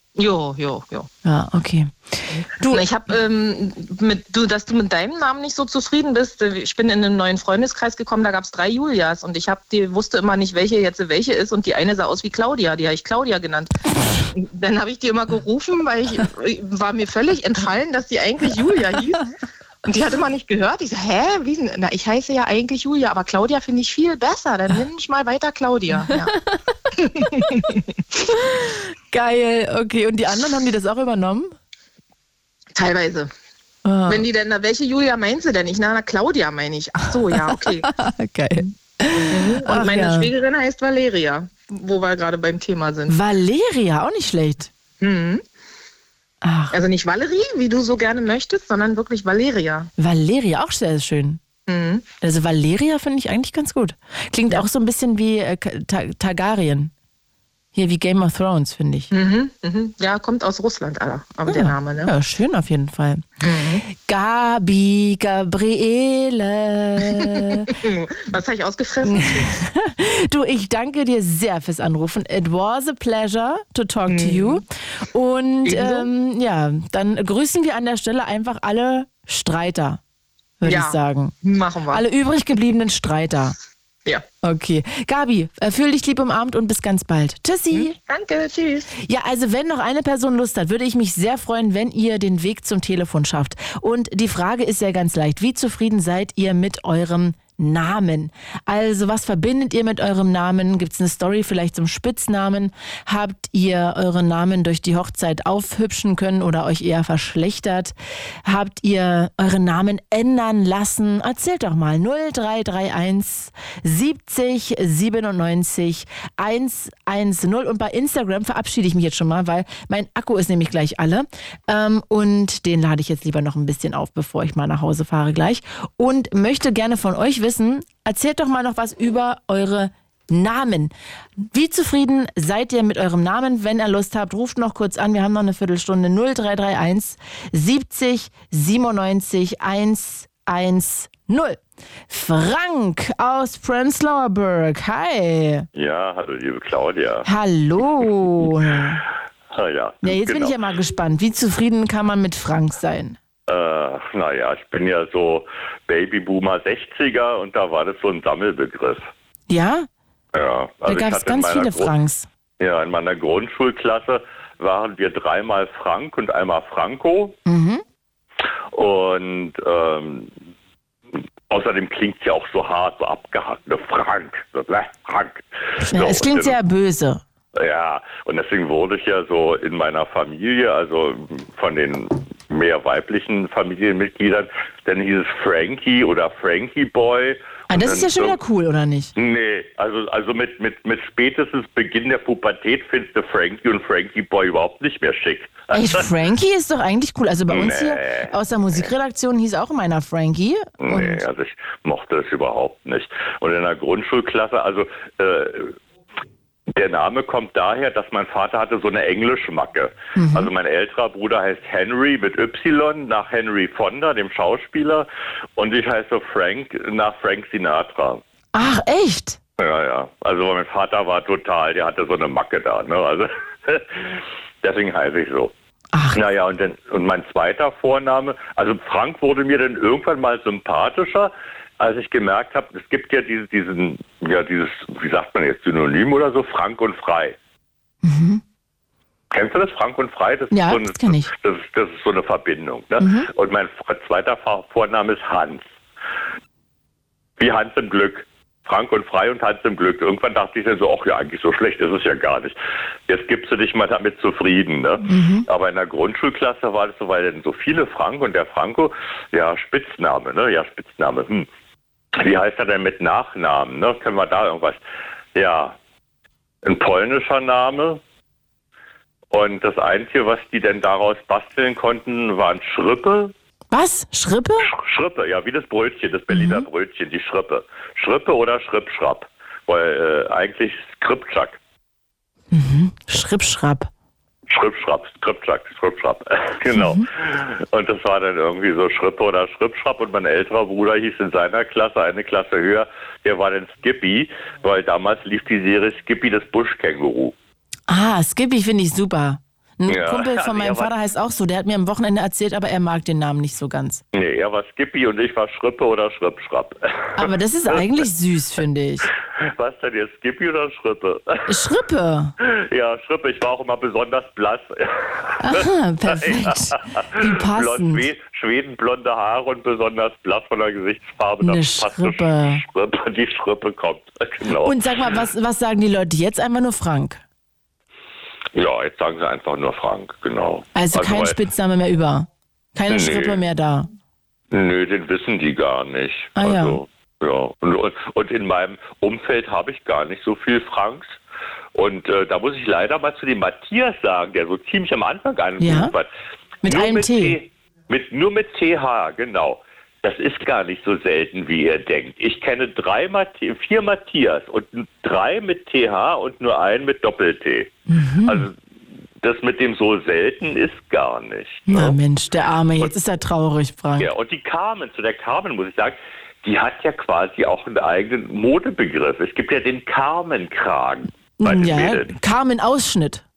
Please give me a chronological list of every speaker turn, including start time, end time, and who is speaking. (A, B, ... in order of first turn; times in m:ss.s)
0:00.2-0:01.1 A
0:01.2-0:02.9 B
0:02.7-0:13.7 A
0:14.3-0:19.2 A
0:19.9-0:26.3 A
0:27.0-0:27.8 A
0:28.3-0:31.6 B
0:32.8-0:33.3 A
0:33.8-0:34.3 B
0:34.1-0:37.9 A
0:37.3-0:40.3 B
0:39.3-0:43.2 A
0:43.1-0:44.7 B
0:45.0-0:45.4 A
0:46.4-0:46.8 B
0:46.7-0:49.9 A
0:50.0-0:51.4 B
0:51.7-0:52.1 A
0:52.2-0:56.9 B
0:57.7-0:59.1 B
0:59.1-1:02.1 A
1:01.5-1:03.2 B
1:03.4-1:03.8 A
1:03.9-1:07.7 B
1:07.1-1:09.5 A
1:09.0-1:20.0 B
1:14.1-1:14.6 A
1:15.6-1:16.1 A
1:20.6-1:21.4 B
1:20.6-1:22.0 A
1:21.9-1:23.6 B
1:24.4-1:28.0 B
1:27.7-1:28.9 A
1:29.0-2:25.7 B
2:25.8-2:27.3 C
2:27.2-2:29.0 B
2:29.5-2:30.5 C
2:30.0-2:33.2 B
2:33.5-2:39.1 C
2:39.5-2:39.9 B
2:40.4-2:41.9 C
2:40.9-2:42.3 B
2:42.6-2:47.4 C
2:47.5-2:47.8 B
2:48.7-2:50.3 C
2:51.5-2:56.6 C
2:55.8-2:57.2 B
2:57.6-3:08.4 C
3:07.7-3:09.1 B
3:09.2-3:16.0 C
3:15.7-3:21.2 B
3:17.5-3:18.3 C
3:20.8-3:25.8 C
3:26.7-3:38.2 C
3:30.2-3:30.5 B
3:38.5-3:39.4 B
3:39.6-3:45.5 C
3:45.9-3:46.2 B
3:46.1-3:57.4 C
3:58.0-3:58.4 B
3:59.3-4:05.7 C
4:00.5-4:01.3 B
4:03.0-4:03.3 B
4:07.4-4:12.6 C
4:13.1-4:21.5 C
4:15.1-4:15.5 B
4:22.2-4:24.8 C
4:25.4-4:25.8 C
4:26.6-4:28.0 C
4:29.3-4:33.3 C
4:33.7-4:34.7 B
4:34.6-4:41.6 C
4:36.3-4:36.7 B
4:42.5-4:43.9 B
4:44.5-4:57.3 C
4:46.7-4:47.1 B
4:57.9-5:04.0 B
4:59.9-5:00.9 C
5:04.1-5:07.2 C
5:07.2-5:09.1 B
5:09.4-5:11.5 C
5:11.5-5:12.3 B
5:12.4-5:16.6 C
5:15.4-5:18.1 B
5:17.2-5:24.8 C
5:21.4-5:22.6 B
5:24.6-5:27.2 B
5:28.6-5:31.4 C
5:30.7-5:33.9 B
5:32.9-5:33.4 C
5:34.5-5:41.2 C
5:36.4-5:36.8 B
5:41.8-5:46.1 C
5:45.6-5:45.9 B
5:46.6-5:47.4 B
5:46.6-5:57.7 C
5:57.9-5:58.5 B
5:58.3-5:58.6 C
5:59.2-6:02.0 C
6:01.7-6:04.1 B
6:04.0-6:12.1 C
6:11.4-6:13.2 B